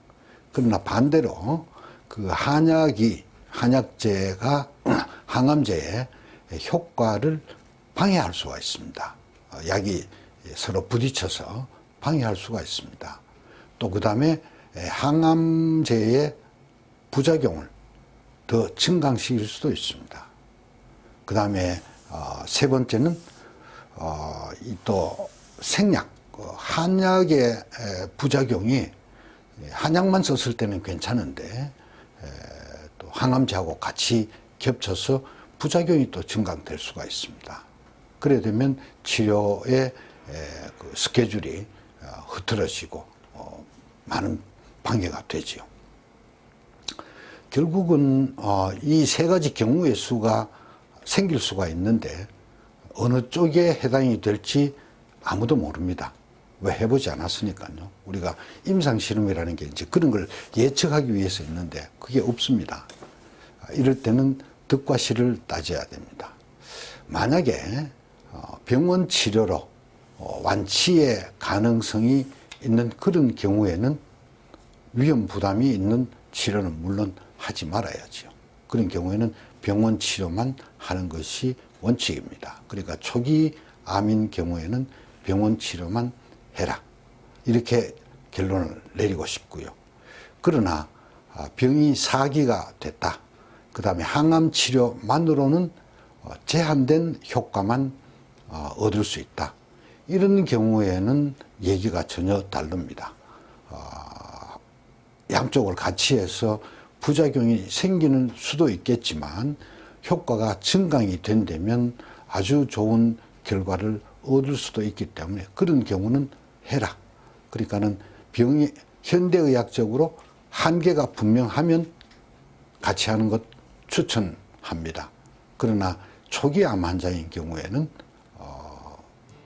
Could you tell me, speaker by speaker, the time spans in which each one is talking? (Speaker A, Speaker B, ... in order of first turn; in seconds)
Speaker A: 0.5-13.2, 13.8-16.4, 17.1-17.7, 18.5-20.3, 21.2-23.2, 23.9-28.9, 29.6-37.6, 38.2-45.7, 47.5-50.5, 51.0-52.3, 52.9-62.9, 63.6-66.3, 67.1-74.0, 74.9-86.8, 87.4-89.7, 90.4-93.2, 93.7-98.0, 98.5-99.5, 100.1-103.1, 103.7-104.6, 105.3-117.0, 117.5-121.9, 122.8-129.1